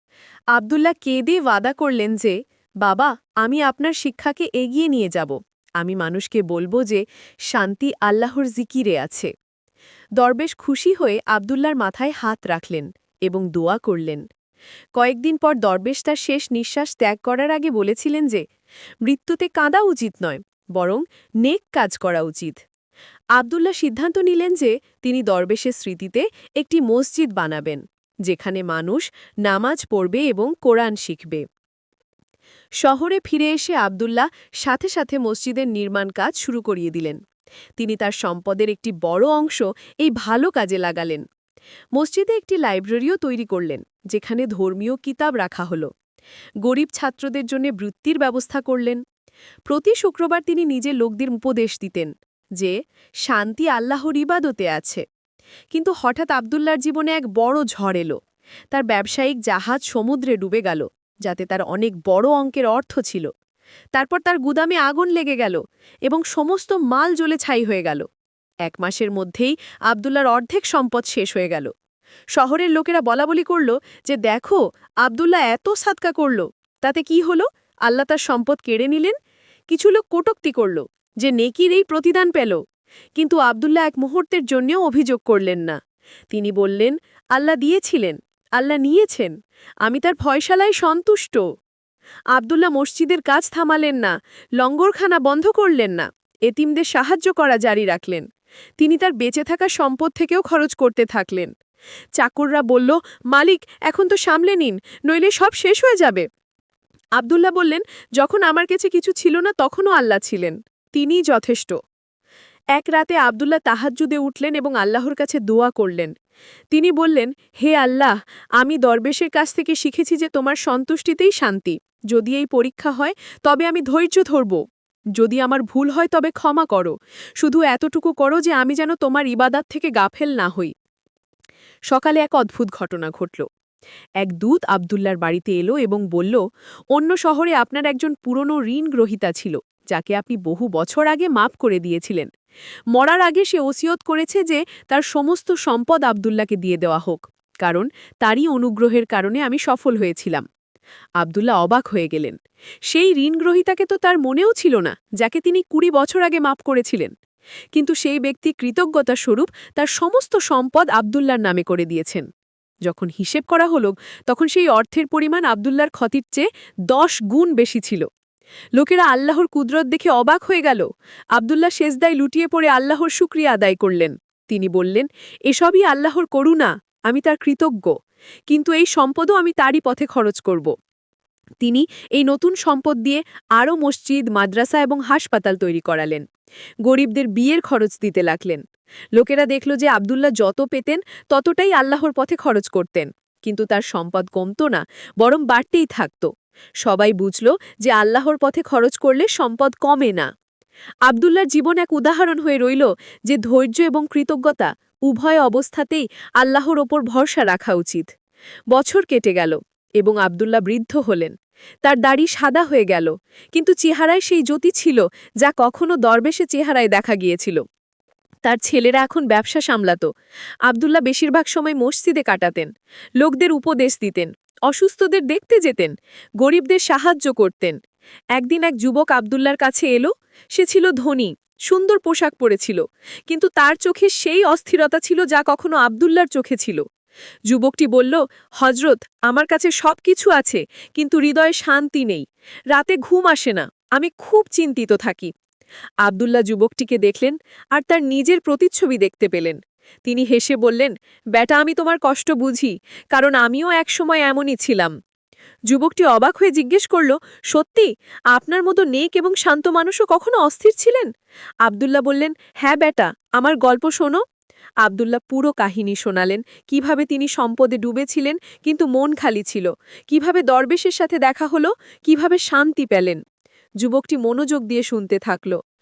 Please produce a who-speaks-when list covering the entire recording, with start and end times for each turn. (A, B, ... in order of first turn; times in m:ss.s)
0:00.5-0:07.0 A
0:07.5-0:09.3 A
0:10.2-0:14.2 A
0:15.0-0:18.4 A
0:19.1-0:22.6 A
0:23.4-0:31.4 A
0:32.8-0:37.2 A
0:37.8-0:41.2 A
0:42.0-0:45.9 A
0:46.6-0:49.0 A
0:49.7-0:52.7 A
0:53.3-0:55.0 A
0:55.7-0:58.2 A
0:58.7-1:03.3 A
1:03.9-1:08.1 A
1:08.7-1:11.7 A
1:12.4-1:19.2 A
1:19.7-1:22.6 A
1:23.2-1:25.8 A
1:26.3-1:29.3 A
1:29.8-1:31.4 A
1:32.4-1:38.3 A
1:38.8-1:41.5 A
1:42.2-1:46.2 A
1:47.2-1:51.8 A
1:52.8-1:56.1 A
1:56.7-2:04.6 A
2:05.2-2:10.7 A
2:11.9-2:13.5 A
2:14.2-2:16.4 A
2:16.9-2:22.3 A
2:22.9-2:30.4 A
2:31.2-2:32.4 A
2:32.9-2:37.1 A
2:37.8-2:42.3 A
2:42.9-2:48.1 A
2:48.8-2:50.8 A
2:51.4-2:57.9 A
2:58.5-3:00.7 A
3:01.6-3:06.2 A
3:06.9-3:08.6 A
3:09.2-3:16.3 A
3:16.8-3:20.3 A
3:21.1-3:28.1 A
3:28.7-3:37.6 A
3:38.4-3:40.1 A
3:40.7-3:42.7 A
3:43.2-3:47.8 A
3:48.4-3:56.8 A
3:57.5-4:05.3 A
4:06.0-4:14.9 A
4:15.7-4:21.1 A
4:21.6-4:24.2 A
4:24.8-4:33.2 A
4:33.8-4:35.6 A